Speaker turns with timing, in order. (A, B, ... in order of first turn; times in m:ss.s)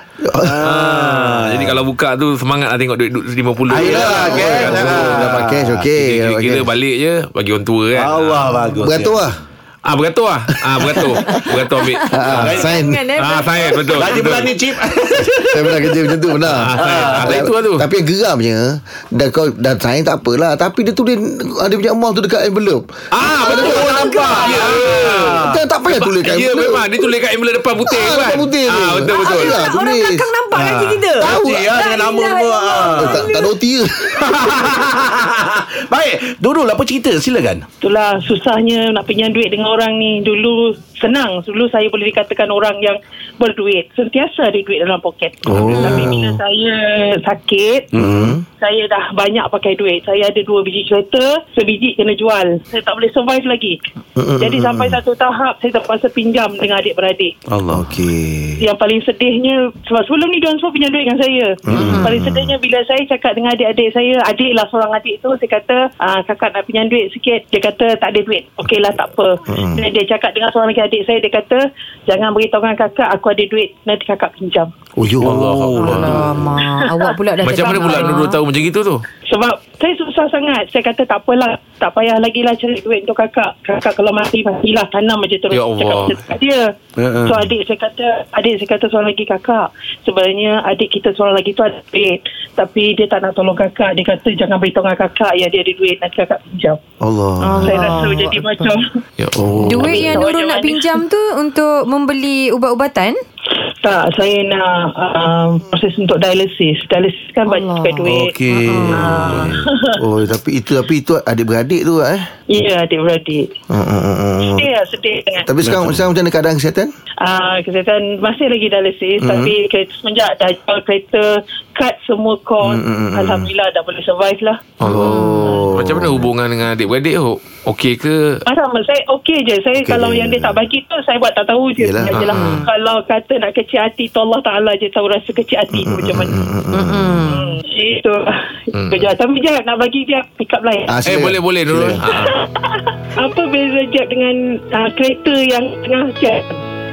0:00.2-0:00.6 A
0:00.4-0:01.8 B
0:00.6-0:05.3 C
0:03.7-0:05.8 B
0:03.8-0:06.7 A
0:05.9-0:08.6 C
0:07.9-0:09.2 B
0:08.8-0:09.4 A
0:09.8-0:12.6 C
0:10.7-0:11.4 A
0:11.2-0:14.0 D
0:12.1-0:13.0 A
0:12.4-0:12.6 B
0:13.1-0:14.5 C
0:13.8-0:16.0 B
0:15.5-0:26.9 A
0:16.4-0:17.9 C
0:16.7-0:17.5 B
0:23.1-0:29.6 C
0:23.4-0:25.6 B
0:23.5-0:24.7 D
0:27.8-0:30.3 A
0:29.1-0:33.5 D
0:30.5-0:33.2 B
0:31.2-0:31.7 A
0:33.0-0:34.5 A
0:34.1-0:37.6 B
0:37.8-0:47.9 E
0:45.5-0:46.4 A
0:47.9-0:48.4 B
0:48.0-0:48.4 A
0:48.5-0:53.8 E
0:54.2-0:55.0 A
0:54.4-0:57.3 E
0:57.5-0:57.9 B
0:57.7-0:58.6 A
0:58.6-1:14.7 E
1:01.7-1:02.5 A
1:01.7-1:02.0 B
1:01.8-1:02.1 D
1:09.5-1:09.8 A
1:15.0-1:15.5 A
1:15.2-1:16.2 C
1:15.2-1:16.5 B
1:15.8-1:18.4 D
1:16.6-1:17.1 E
1:17.4-1:19.0 C
1:17.7-1:18.1 E
1:19.3-1:26.7 E
1:25.5-1:26.2 C
1:27.0-1:27.4 B
1:27.2-1:36.8 E
1:37.0-1:38.0 A
1:37.4-1:38.7 D
1:37.5-1:38.8 E
1:39.2-1:40.0 C
1:39.4-1:40.1 A
1:39.6-1:43.2 D
1:39.8-1:41.0 E
1:43.8-1:48.4 E
1:47.5-1:49.5 D
1:48.0-1:49.6 B
1:48.9-1:50.0 E
1:50.0-1:52.3 A
1:52.5-1:53.5 E
1:53.7-1:54.7 A
1:54.4-1:55.5 E
1:55.4-1:56.9 A
1:55.6-1:56.0 B
1:57.2-2:04.8 E
1:59.2-1:59.5 A
2:02.6-2:03.5 A
2:04.8-2:08.4 C
2:04.8-2:06.3 A
2:04.8-2:05.6 D
2:08.4-2:16.4 E
2:09.8-2:10.6 A
2:11.8-2:12.2 A
2:12.1-2:12.6 C
2:12.3-2:12.6 D
2:15.7-2:17.2 A
2:16.7-2:17.5 D
2:17.2-2:21.0 E
2:18.7-2:19.1 C
2:20.9-2:22.0 A
2:21.0-2:22.4 C
2:22.0-2:26.6 E